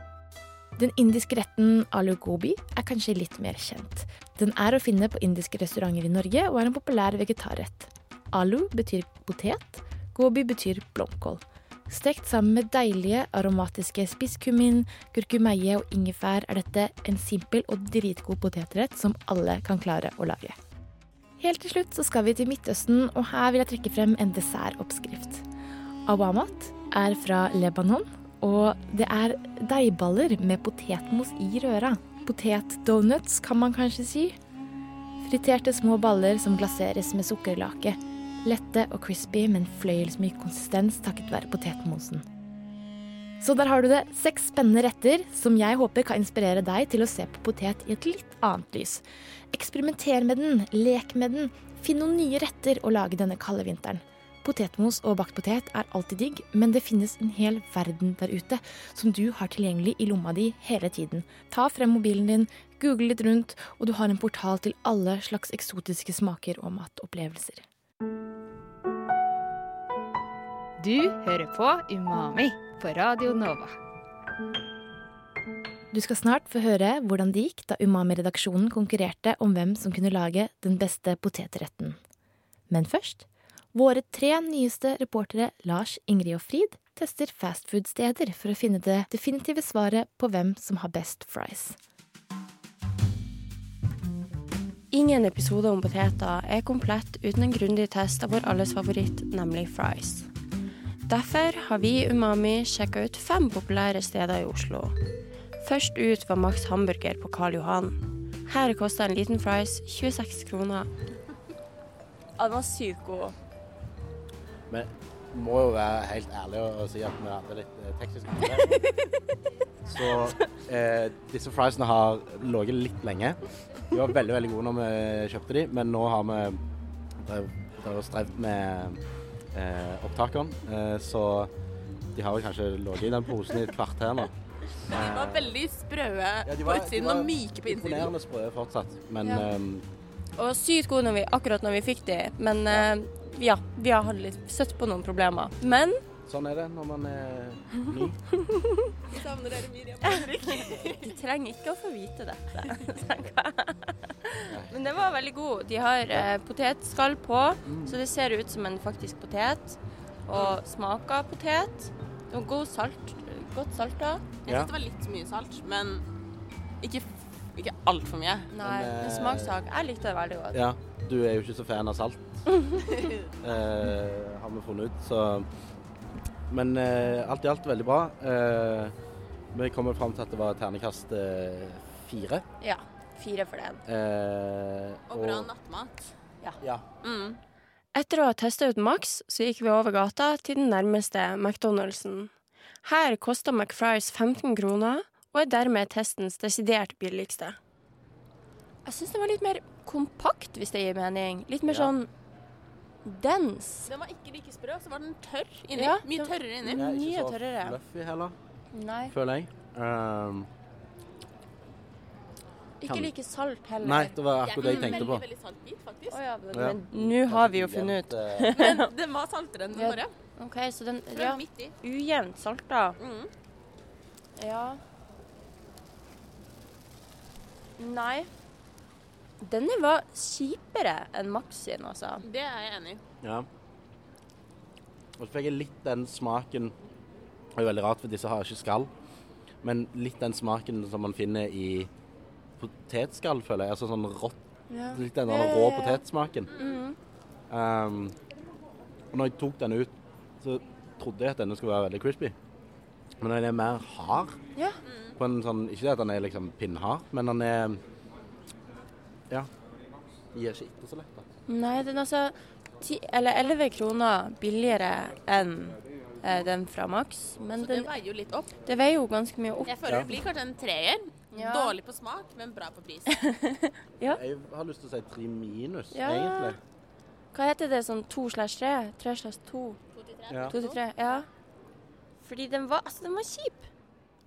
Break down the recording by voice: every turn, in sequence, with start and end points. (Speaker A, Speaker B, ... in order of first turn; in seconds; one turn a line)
Speaker A: 0.8-20.6
Speaker A: 21.4-25.4
Speaker A: 26.1-34.4
Speaker A: 35.2-42.2
Speaker A: 43.4-67.7
Speaker B: 70.8-73.8
Speaker A: 75.9-82.0
Speaker A: 82.7-91.8
Speaker C: 94.9-100.3
Speaker C: 101.1-105.0
Speaker C: 105.6-110.9
Speaker C: 112.4-113.3
Speaker D: 114.7-118.8
Speaker D: 119.9-123.4
Speaker D: 123.9-126.6
Speaker D: 127.2-129.0
Speaker D: 129.5-131.5
Speaker D: 132.1-134.3
Speaker E: 134.9-138.1
Speaker D: 134.9-135.6
Speaker D: 136.4-139.8
Speaker C: 139.2-139.5
Speaker C: 140.4-146.0
Speaker D: 146.2-148.2
Speaker C: 148.4-148.9
Speaker E: 149.1-151.2
Speaker C: 150.0-164.3
Speaker D: 154.4-155.2
Speaker D: 157.6-158.0
Speaker E: 164.4-166.0
Speaker D: 164.4-164.7
Speaker E: 166.8-168.5
Speaker C: 168.5-170.6
Speaker D: 168.6-169.6
Speaker D: 170.5-172.4
Speaker E: 172.9-173.3
Speaker D: 173.4-175.5
Speaker D: 176.5-178.9
Speaker D: 179.5-182.4
Speaker C: 182.6-183.8
Speaker D: 183.8-185.5
Speaker E: 185.1-185.9
Speaker E: 187.0-187.4
Speaker C: 187.9-192.3
Speaker C: 192.8-197.6
Speaker C: 198.8-202.1
Speaker D: 201.6-201.9
Speaker C: 203.0-203.9
Speaker E: 203.8-206.8
Speaker C: 205.7-207.8
Speaker D: 206.7-208.3
Speaker C: 208.7-209.1
Speaker D: 209.1-210.5
Speaker C: 212.8-215.1
Speaker D: 213.8-215.2
Speaker E: 214.4-216.2
Speaker C: 216.1-218.9
Speaker D: 216.5-218.5
Speaker E: 218.5-220.1
Speaker C: 219.7-223.0
Speaker E: 221.1-221.7
Speaker E: 223.0-223.3
Speaker C: 224.4-224.8
Speaker C: 227.8-228.3
Speaker C: 229.4-232.2
Speaker E: 232.2-233.0
Speaker D: 233.2-233.5
Speaker D: 235.2-236.7
Speaker D: 237.6-238.9
Speaker D: 239.6-241.9
Speaker D: 242.6-244.4
Speaker C: 244.7-246.0
Speaker D: 244.9-246.5
Speaker C: 246.5-247.0
Speaker D: 247.5-248.2
Speaker D: 249.1-252.3
Speaker D: 253.2-254.4
Speaker C: 254.5-254.8
Speaker E: 254.8-255.1
Speaker D: 255.2-257.8
Speaker D: 260.3-261.3
Speaker C: 261.5-267.9
Speaker E: 267.5-268.5
Speaker C: 268.6-269.7
Speaker E: 269.6-273.1
Speaker C: 271.3-271.8
Speaker C: 273.1-274.2
Speaker D: 274.1-276.6
Speaker C: 275.9-276.6
Speaker C: 277.3-279.8
Speaker E: 279.9-281.2
Speaker D: 280.3-280.5
Speaker C: 280.5-281.3
Speaker C: 282.2-283.7